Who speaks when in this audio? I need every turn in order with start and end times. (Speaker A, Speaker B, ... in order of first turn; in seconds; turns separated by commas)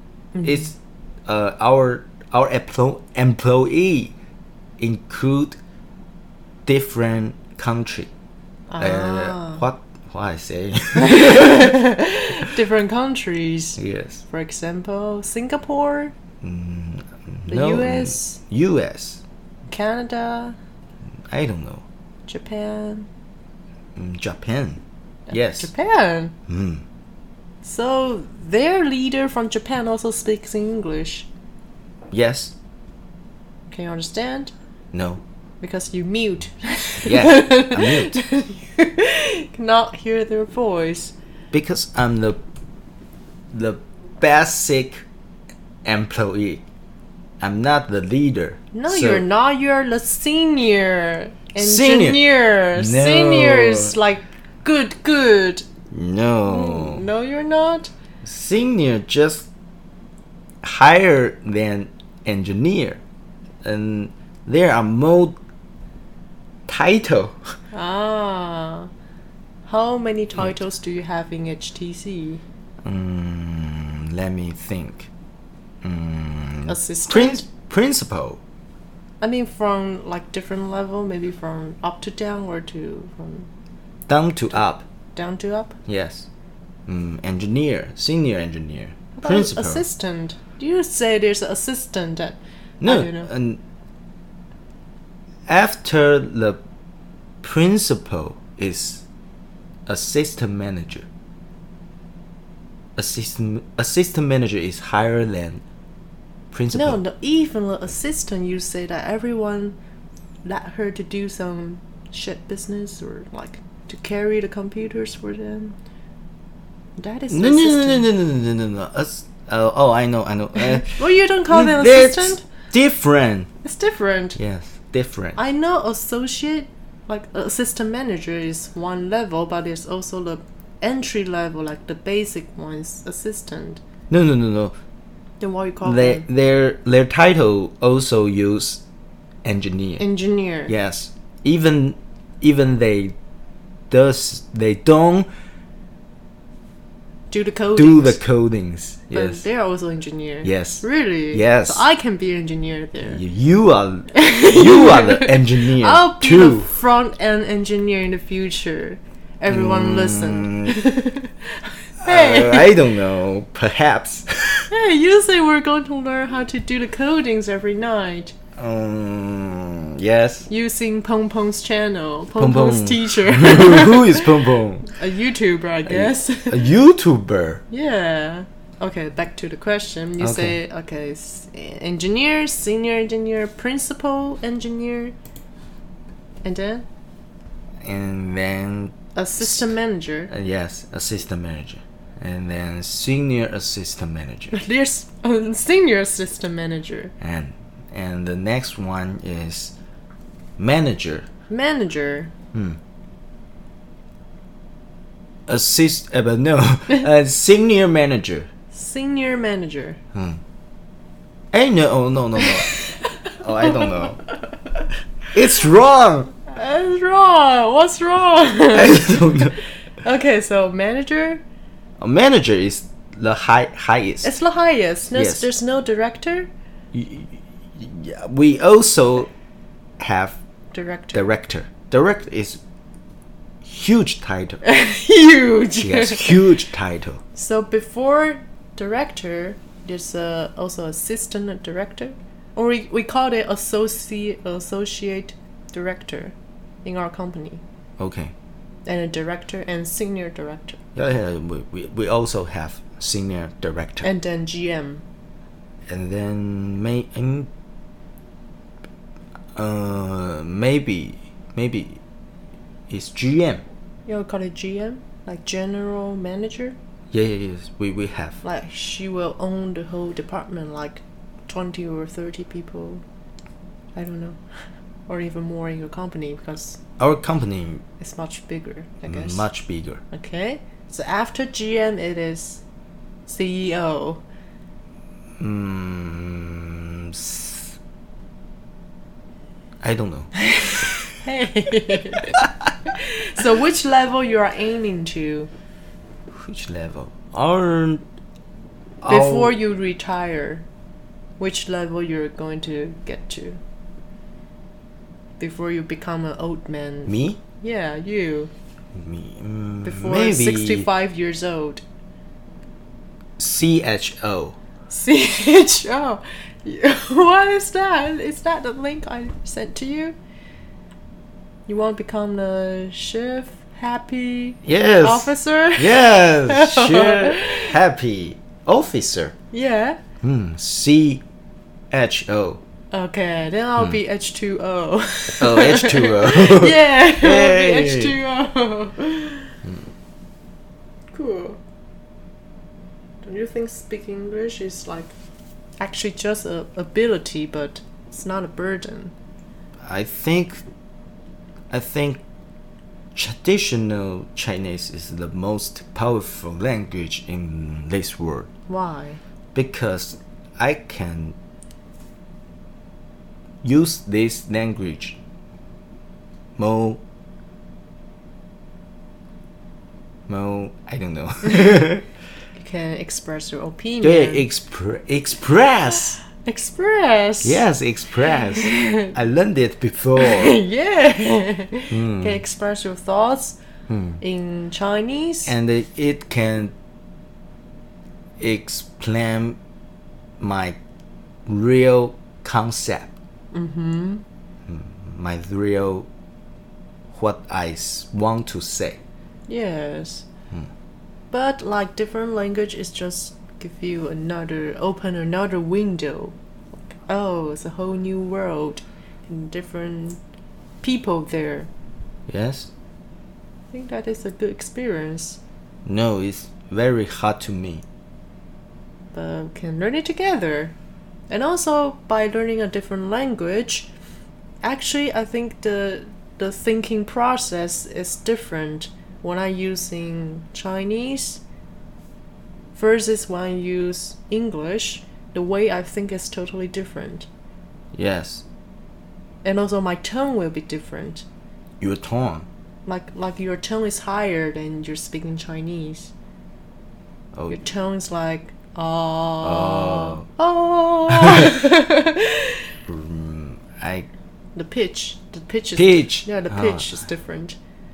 Speaker A: 0.3-0.7, Speaker B: 0.4-4.2, Speaker B: 4.8-5.6, Speaker B: 6.7-8.1, Speaker A: 8.7-9.6, Speaker B: 8.8-11.8, Speaker A: 11.0-16.1, Speaker B: 13.8-14.2, Speaker B: 16.4-19.2, Speaker A: 17.5-18.4, Speaker A: 19.7-20.6, Speaker B: 21.3-21.9, Speaker A: 22.3-23.1, Speaker B: 24.0-25.7, Speaker A: 25.3-26.4, Speaker B: 26.5-26.8, Speaker A: 27.6-31.3, Speaker B: 32.1-32.5, Speaker A: 33.7-34.5, Speaker B: 34.9-35.2, Speaker A: 35.6-41.1, Speaker B: 37.0-38.1, Speaker B: 41.5-42.4, Speaker B: 43.5-45.0, Speaker B: 45.9-46.6, Speaker B: 47.4-49.2, Speaker A: 48.7-55.7, Speaker B: 51.6-54.0, Speaker B: 55.9-57.1, Speaker A: 56.5-57.9, Speaker B: 58.2-59.5, Speaker B: 60.6-63.0, Speaker B: 63.6-65.4, Speaker B: 66.7-67.5, Speaker A: 67.7-68.9, Speaker A: 69.7-72.4, Speaker B: 72.8-75.1, Speaker B: 75.8-78.4, Speaker A: 76.7-77.5, Speaker A: 79.2-83.5, Speaker B: 84.1-84.8, Speaker A: 85.1-85.8, Speaker B: 85.9-86.3, Speaker B: 86.9-89.8, Speaker A: 89.2-93.3, Speaker B: 92.8-93.6, Speaker B: 95.5-96.6, Speaker B: 97.4-99.0, Speaker B: 99.9-101.1, Speaker B: 103.0-105.6, Speaker B: 106.5-107.0, Speaker A: 106.7-109.8, Speaker A: 110.4-115.8, Speaker A: 117.0-118.1, Speaker B: 117.3-123.5, Speaker A: 120.6-122.4, Speaker A: 123.6-124.4, Speaker B: 124.4-125.4, Speaker A: 125.4-133.8, Speaker B: 134.1-134.7, Speaker A: 135.4-136.3, Speaker B: 135.8-138.8, Speaker B: 139.4-140.0, Speaker A: 140.0-140.7, Speaker B: 140.7-143.2, Speaker B: 143.9-145.3, Speaker A: 147.3-148.2, Speaker B: 147.8-149.5, Speaker A: 149.1-153.2, Speaker B: 150.4-151.8, Speaker B: 153.0-156.7, Speaker A: 154.1-162.8, Speaker B: 159.5-160.8, Speaker B: 162.0-164.7, Speaker A: 164.7-168.3, Speaker B: 168.6-170.5, Speaker A: 170.5-176.7, Speaker B: 172.4-174.9, Speaker B: 175.9-177.6, Speaker A: 177.7-185.2, Speaker B: 180.2-180.6, Speaker A: 186.4-186.9, Speaker B: 187.8-189.7, Speaker A: 189.2-190.3, Speaker B: 190.3-194.6, Speaker A: 194.5-197.1, Speaker B: 197.2-199.8, Speaker B: 200.6-201.3, Speaker A: 201.5-202.3, Speaker B: 205.5-208.5, Speaker A: 208.7-210.0, Speaker B: 211.5-214.2, Speaker A: 212.4-214.1, Speaker B: 215.3-216.3, Speaker A: 216.5-221.4, Speaker B: 218.7-219.6, Speaker B: 222.0-224.3, Speaker A: 224.2-226.5, Speaker B: 225.2-225.5, Speaker B: 226.9-229.3, Speaker B: 230.0-230.4, Speaker A: 230.7-231.3, Speaker B: 231.1-232.6, Speaker B: 233.6-234.6, Speaker A: 234.6-236.5, Speaker B: 235.8-237.2, Speaker A: 237.3-247.6, Speaker B: 248.0-248.3, Speaker A: 248.9-250.8, Speaker B: 250.9-254.1, Speaker A: 254.0-255.0, Speaker B: 255.9-257.5, Speaker B: 259.6-262.0, Speaker B: 262.9-263.6, Speaker A: 264.1-266.8, Speaker B: 267.1-268.4, Speaker A: 268.4-273.0, Speaker A: 273.9-274.4, Speaker A: 275.1-276.8, Speaker B: 277.0-277.8, Speaker A: 278.0-279.4, Speaker B: 279.1-280.0, Speaker A: 280.1-282.6, Speaker A: 283.3-284.2, Speaker B: 285.4-287.8, Speaker B: 289.8-290.3, Speaker A: 290.6-295.5, Speaker B: 296.3-298.0, Speaker B: 299.0-299.6, Speaker A: 299.1-300.6, Speaker A: 301.4-303.6, Speaker A: 305.4-308.5, Speaker B: 307.1-307.4, Speaker B: 308.9-310.9, Speaker A: 309.8-311.8, Speaker B: 313.4-314.6, Speaker A: 314.9-320.2, Speaker A: 321.7-327.8, Speaker B: 324.6-329.4, Speaker A: 329.5-330.0, Speaker B: 330.2-331.2, Speaker B: 331.9-332.6, Speaker A: 332.9-339.5, Speaker B: 335.4-338.2, Speaker A: 341.1-341.6, Speaker A: 343.2-345.1, Speaker A: 345.8-349.1, Speaker B: 349.8-350.6, Speaker B: 351.7-352.2, Speaker B: 353.1-358.5, Speaker A: 358.7-359.2, Speaker B: 359.6-361.4, Speaker B: 363.6-365.2, Speaker B: 366.6-367.0, Speaker B: 370.3-372.1, Speaker A: 371.5-371.8, Speaker A: 372.6-374.5, Speaker B: 374.0-376.2, Speaker A: 376.3-377.6, Speaker B: 377.4-380.6, Speaker A: 378.3-379.1, Speaker A: 380.2-383.6, Speaker B: 381.9-382.4, Speaker B: 383.9-384.2, Speaker A: 384.2-385.5, Speaker B: 385.5-386.7, Speaker B: 388.4-389.6, Speaker B: 390.4-390.8, Speaker B: 391.5-393.1, Speaker A: 393.5-394.2, Speaker B: 394.7-396.1, Speaker B: 397.1-399.0, Speaker A: 399.5-400.2, Speaker A: 401.3-406.4, Speaker A: 406.9-410.2, Speaker A: 410.8-411.7, Speaker B: 412.3-412.7, Speaker A: 413.7-415.4, Speaker B: 415.9-417.8, Speaker A: 419.1-420.8, Speaker A: 421.3-423.9, Speaker A: 424.6-431.4, Speaker A: 432.8-437.3, Speaker B: 437.9-438.4, Speaker A: 439.4-441.3, Speaker B: 441.8-442.5, Speaker A: 442.9-446.1, Speaker B: 447.3-447.6, Speaker A: 447.5-452.6, Speaker B: 449.4-450.2, Speaker B: 451.1-451.5, Speaker B: 452.9-454.1, Speaker A: 454.6-457.6, Speaker B: 455.8-457.0